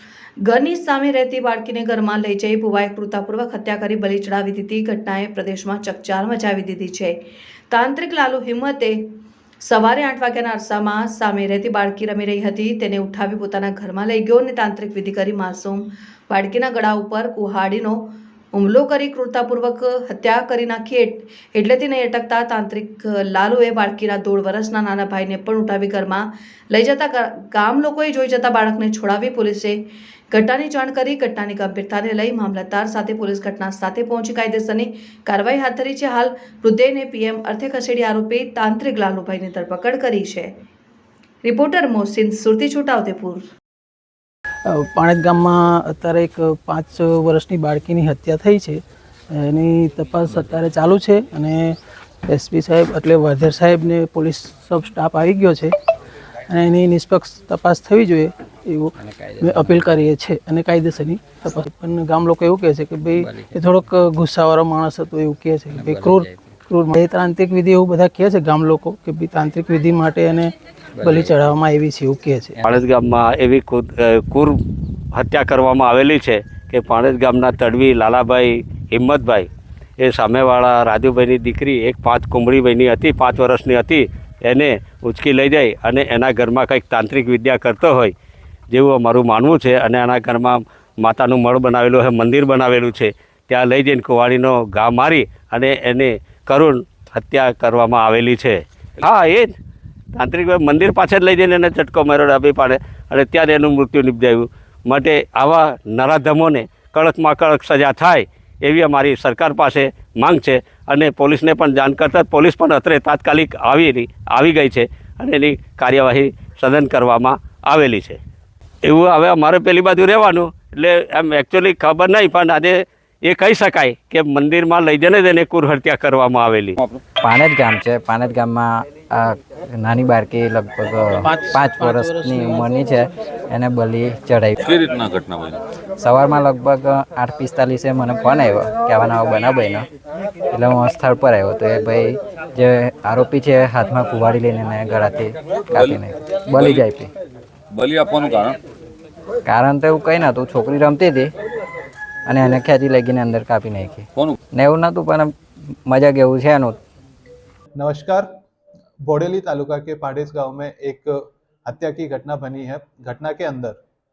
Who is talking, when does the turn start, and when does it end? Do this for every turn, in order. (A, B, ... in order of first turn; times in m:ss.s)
0:00.4-0:07.2 A
0:07.7-0:40.5 A
0:41.4-0:43.5 A
0:44.6-0:55.7 B
0:56.5-1:12.6 B
0:59.0-1:00.0 C
1:03.1-1:03.5 C
1:05.7-1:06.5 C
1:11.0-1:11.3 C
1:12.6-1:14.6 D
1:15.1-1:19.5 D
1:20.0-1:28.1 D
1:28.7-1:39.5 D
1:40.2-1:58.2 D
1:58.9-2:06.8 D
2:07.2-2:14.6 C
2:11.2-2:12.8 B
2:14.6-2:15.6 E
2:16.0-2:19.9 C
2:20.5-2:27.1 C
2:25.6-2:26.9 E
2:27.7-2:28.6 E
2:29.5-2:31.3 C
2:32.3-2:36.8 C
2:37.8-2:38.3 F
2:39.0-2:43.8 F